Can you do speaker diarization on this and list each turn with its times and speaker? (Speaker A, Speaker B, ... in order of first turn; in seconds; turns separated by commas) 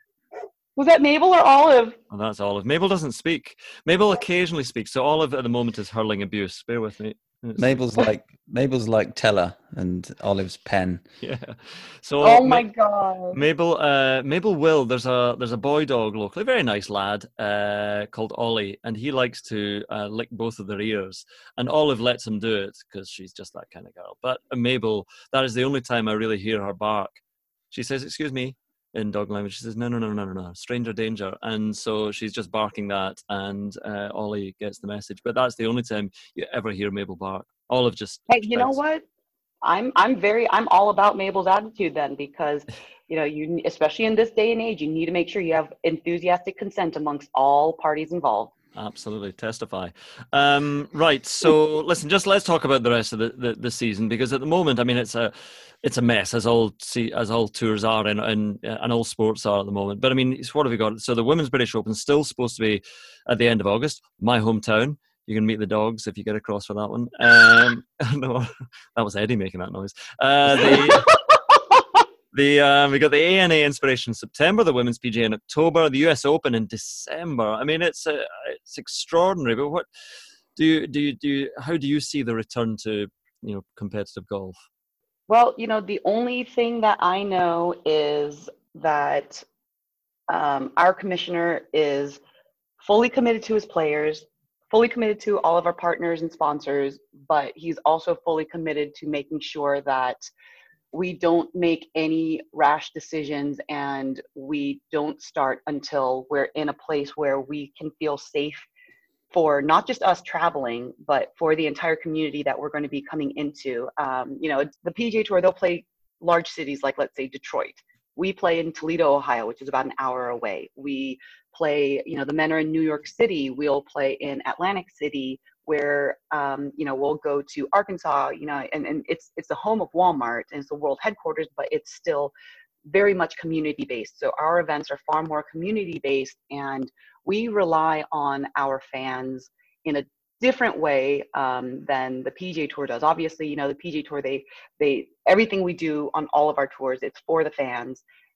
Speaker A: 0.8-2.0, Speaker B: 2.1-7.8, Speaker C: 7.6-11.0, Speaker B: 11.2-12.7, Speaker A: 12.2-13.4, Speaker B: 13.3-27.2, Speaker B: 27.7-38.8, Speaker A: 38.3-39.0, Speaker A: 39.6-48.5, Speaker B: 48.8-71.1, Speaker A: 70.5-71.1, Speaker B: 72.3-79.9, Speaker B: 80.6-84.6, Speaker A: 85.3-89.5, Speaker A: 90.3-92.2, Speaker A: 92.8-100.3, Speaker A: 100.9-108.7, Speaker A: 109.3-132.3, Speaker A: 132.9-148.0